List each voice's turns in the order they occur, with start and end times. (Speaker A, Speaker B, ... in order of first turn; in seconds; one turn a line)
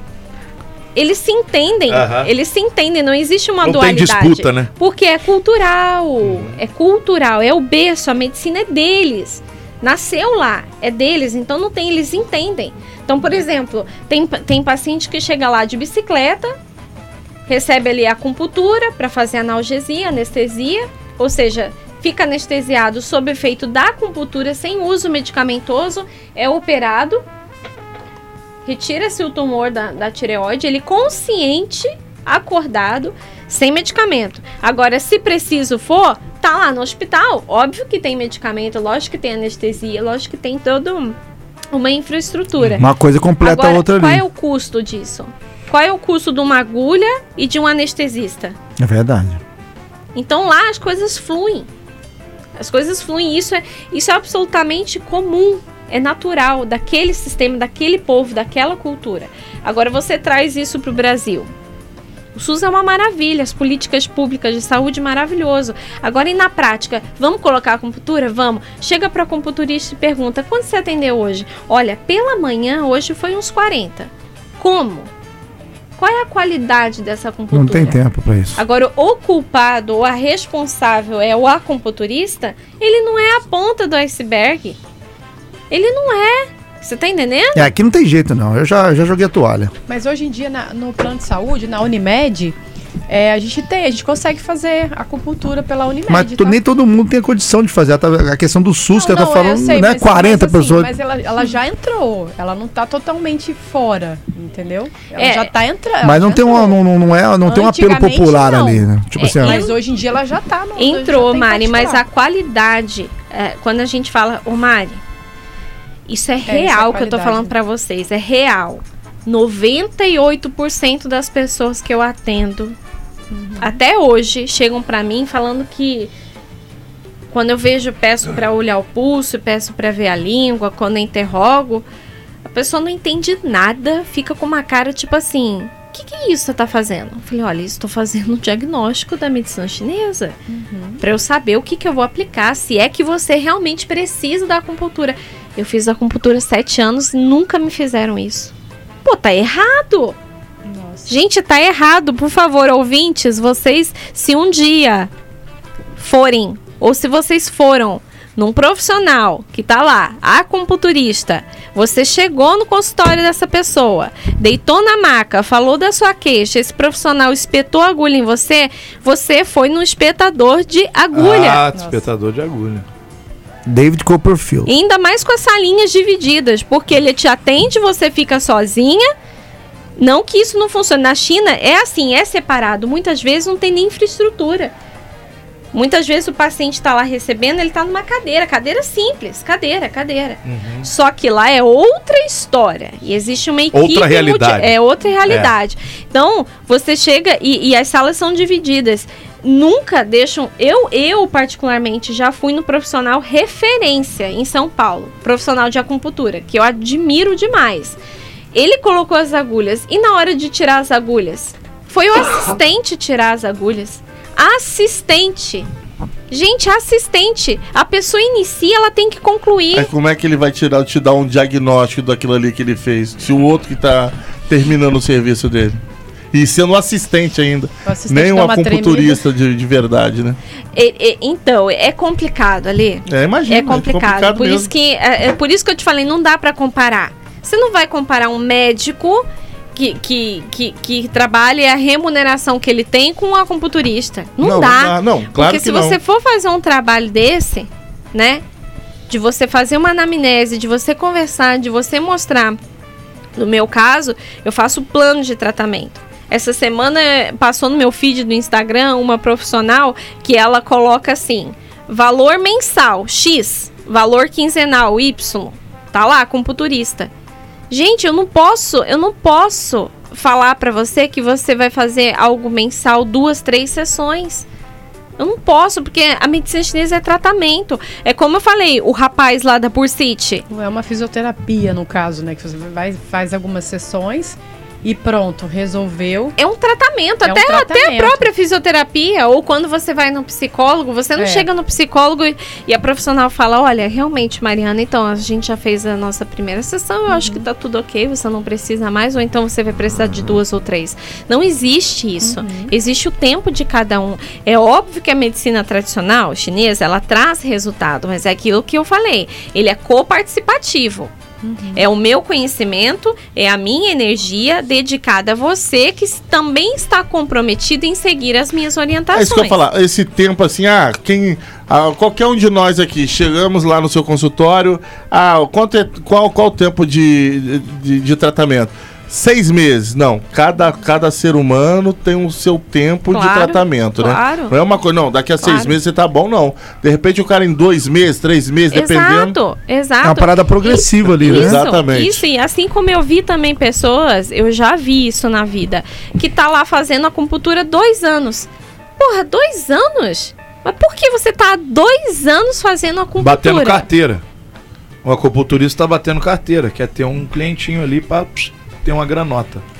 Speaker A: 0.9-16.5
Speaker B: 1.9-2.3
Speaker B: 3.6-4.7
Speaker B: 6.2-6.5
Speaker A: 17.5-27.2
Speaker A: 28.6-41.2
Speaker A: 41.7-42.8
Speaker B: 42.6-42.8
Speaker C: 42.8-44.2
Speaker A: 43.4-48.5
Speaker C: 48.8-49.4
Speaker A: 50.1-51.7
Speaker A: 52.6-61.5
Speaker A: 62.3-75.1
Speaker A: 76.0-78.0
Speaker C: 77.5-78.6
Speaker A: 78.5-84.8
Speaker A: 85.7-87.7
Speaker C: 87.5-89.7
Speaker D: 89.9-92.5
Speaker D: 93.1-96.6
Speaker C: 96.1-100.9
Speaker D: 98.9-106.8
Speaker A: 105.2-105.5
Speaker C: 106.0-109.6
Speaker D: 107.5-108.9
Speaker A: 109.2-109.8
Speaker D: 109.4-112.0
Speaker A: 110.8-115.0
Speaker A: 116.1-122.8
Speaker D: 116.5-117.5
Speaker D: 123.3-123.8
Speaker A: 123.6-126.1
Speaker A: 127.3-131.8
Speaker A: 132.4-140.4
Speaker D: 140.5-141.0
Speaker A: 141.0-148.5
Speaker A: 149.0-150.2
Speaker D: 150.6-151.1
Speaker A: 151.1-155.1
Speaker A: 156.0-171.6
Speaker B: 171.1-172.8
Speaker D: 171.7-172.0
Speaker C: 173.7-174.7
Speaker A: 174.7-179.1
Speaker A: 180.0-184.7
Speaker A: 185.7-208.0
Speaker B: 190.4-190.9
Speaker B: 193.7-195.5
Speaker A: 208.5-215.7
Speaker A: 216.3-219.9
Speaker E: 219.7-225.8
Speaker E: 226.3-230.4
Speaker D: 227.8-229.2
Speaker A: 230.7-248.4
Speaker E: 233.1-234.7
Speaker E: 244.4-246.0
Speaker A: 249.1-252.6
Speaker A: 253.3-267.1
Speaker A: 267.7-274.4
Speaker A: 275.2-280.4
Speaker D: 280.5-286.4
Speaker A: 286.4-311.1
Speaker D: 287.2-288.3
Speaker D: 291.1-291.5
Speaker D: 297.1-297.5
Speaker D: 302.2-302.7
Speaker D: 311.4-311.8
Speaker A: 311.7-319.6
Speaker E: 319.1-339.3
Speaker A: 333.1-334.6
Speaker A: 335.4-335.8
Speaker A: 338.7-353.8
Speaker C: 340.0-341.6
Speaker E: 341.2-342.2
Speaker B: 353.2-354.2
Speaker B: 355.0-359.6